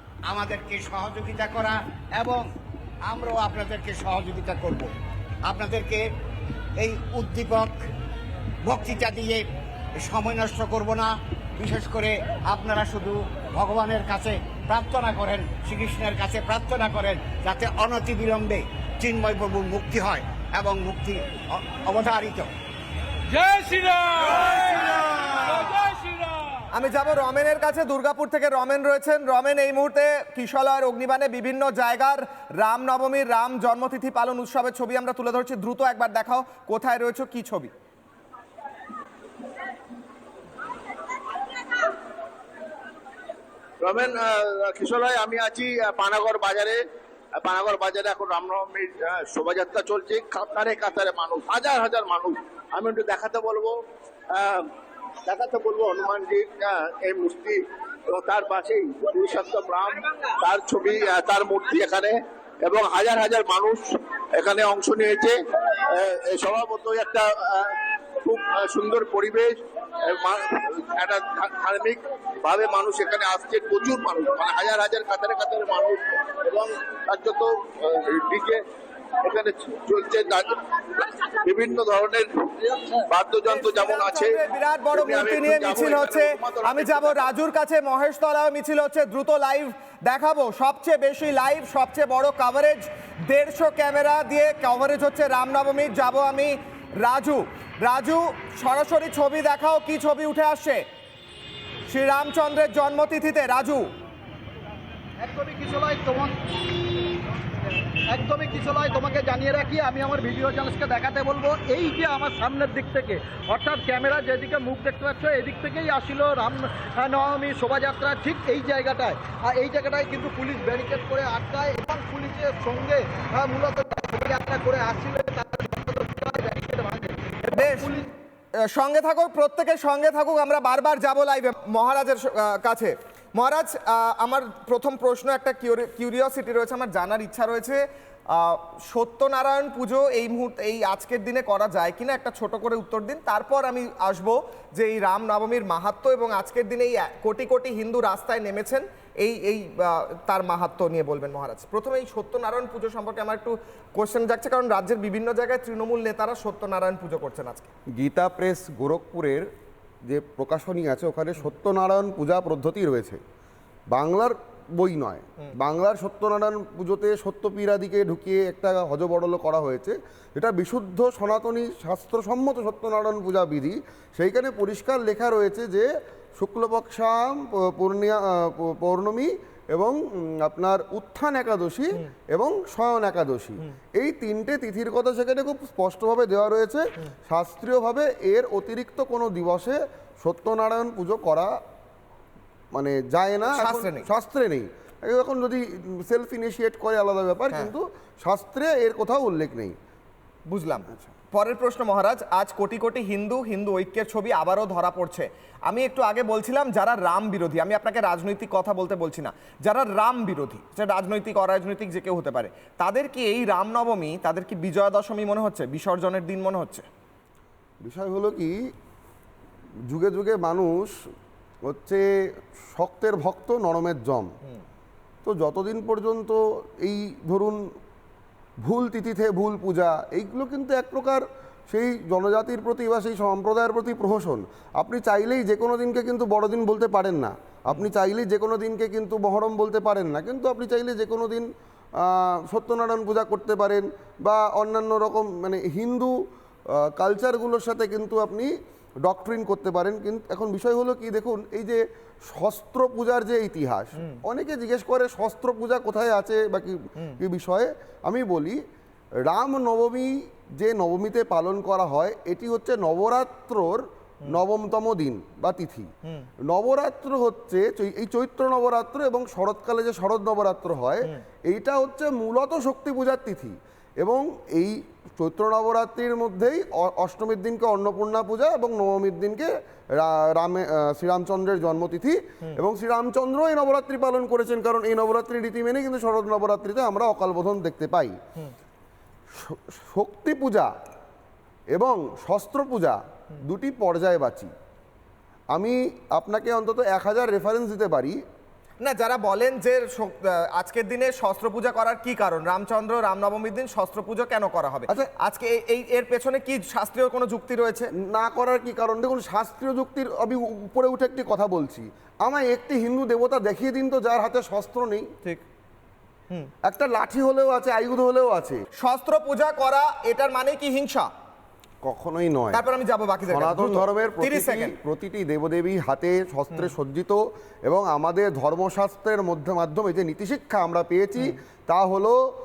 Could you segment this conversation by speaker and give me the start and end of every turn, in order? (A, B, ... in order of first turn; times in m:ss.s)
0:00.3-0:02.5 A
0:03.0-0:04.9 A
0:05.4-0:06.0 A
0:06.8-0:07.9 A
0:08.6-0:09.4 A
0:10.0-0:22.5 A
0:23.4-0:24.4 A
0:26.7-0:37.7 B
0:43.8-0:46.8 C
0:47.4-0:53.7 C
0:54.4-0:54.6 C
0:55.3-0:57.5 C
0:58.2-1:02.1 C
1:02.6-1:03.9 C
1:04.4-1:05.3 C
1:06.0-1:07.7 C
1:08.3-1:09.5 C
1:10.1-1:17.4 C
1:18.0-1:18.6 C
1:19.3-1:20.4 C
1:21.5-1:22.2 C
1:23.1-1:24.4 C
1:23.4-1:40.8 B
1:25.1-1:27.2 C
1:41.9-1:43.9 B
1:45.2-1:46.4 D
1:48.1-2:08.1 D
2:07.5-2:08.0 B
2:08.6-2:37.7 B
2:37.9-2:39.4 E
2:40.1-2:43.2 E
2:43.9-3:11.5 E
3:12.7-3:19.8 E
3:13.5-3:14.1 B
3:20.5-3:36.9 B
3:37.8-3:38.6 E
3:39.9-3:40.9 E
3:41.7-3:42.0 E
3:42.7-3:44.3 E
3:45.2-3:47.6 E
3:48.6-4:01.5 E
4:02.0-4:06.2 E
4:06.7-4:08.5 E
4:09.0-4:18.6 E
4:19.2-4:25.9 E
4:26.5-4:48.2 E
4:49.4-4:50.7 E
4:51.7-4:54.5 E
4:55.5-4:58.2 E
4:58.8-5:07.9 B
5:08.0-5:15.1 E
5:16.6-5:18.6 E
5:18.8-5:21.1 B
5:21.8-5:22.6 E
5:22.5-5:24.7 B
5:23.3-5:32.2 E